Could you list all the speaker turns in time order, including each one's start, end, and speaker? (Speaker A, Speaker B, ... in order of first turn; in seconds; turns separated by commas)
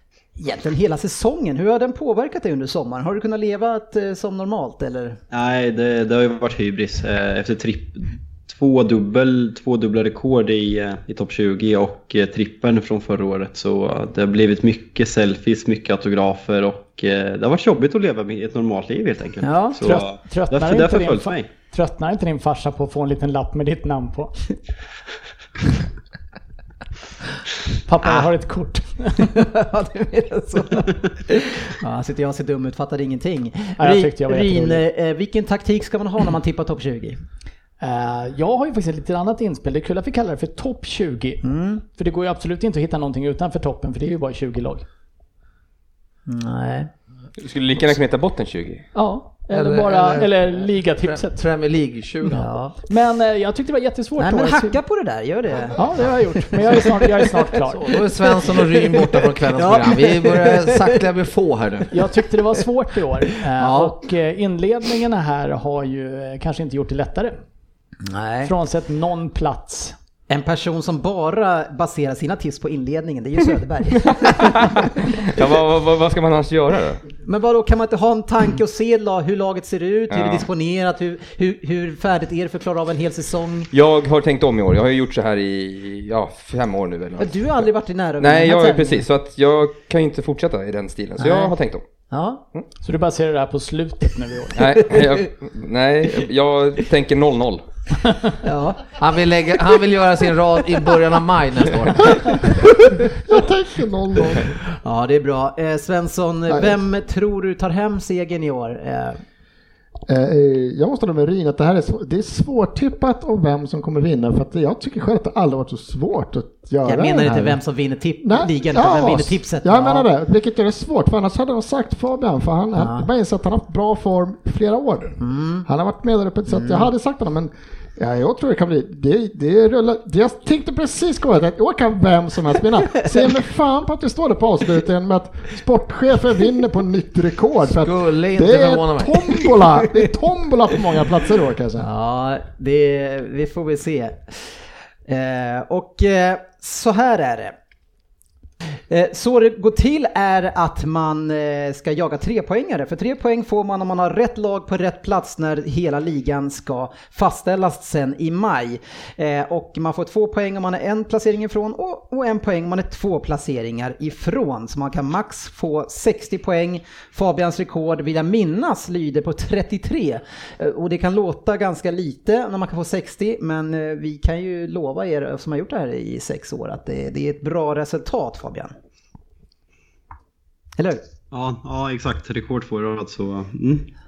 Speaker A: 0.4-5.2, Speaker B: 5.3-21.5, Speaker A: 19.4-19.8, Speaker C: 19.8-24.3, Speaker C: 27.9-29.3, Speaker A: 29.2-37.2, Speaker C: 33.8-34.8, Speaker C: 37.8-41.4, Speaker A: 41.4-41.8, Speaker C: 41.9-44.8, Speaker A: 46.3-46.9, Speaker D: 47.4-48.9, Speaker C: 49.0-51.4, Speaker E: 49.5-52.5, Speaker A: 52.3-52.8, Speaker C: 52.9-54.8, Speaker A: 54.2-55.8, Speaker C: 55.8-57.9, Speaker E: 57.7-61.9, Speaker A: 58.2-61.0, Speaker C: 61.9-67.4, Speaker E: 63.6-63.9, Speaker A: 68.1-68.5, Speaker C: 68.4-70.0, Speaker A: 70.3-74.9, Speaker D: 74.1-77.0, Speaker A: 77.2-83.7, Speaker D: 80.1-80.5, Speaker D: 83.7-87.7, Speaker A: 87.2-89.0, Speaker D: 88.2-91.8, Speaker A: 91.2-91.5, Speaker A: 92.1-92.4, Speaker C: 92.8-94.7, Speaker D: 94.6-97.6, Speaker A: 98.4-98.9, Speaker E: 99.0-102.4, Speaker F: 102.9-104.5, Speaker A: 104.8-109.2, Speaker F: 106.5-106.7, Speaker F: 110.1-117.6, Speaker A: 116.8-120.1, Speaker F: 118.2-141.9, Speaker A: 122.8-123.1, Speaker A: 125.2-125.7, Speaker A: 126.5-126.9, Speaker E: 137.7-139.5, Speaker A: 141.8-144.3, Speaker A: 145.1-147.6, Speaker A: 148.9-178.7, Speaker A: 180.8-181.0, Speaker B: 181.3-183.9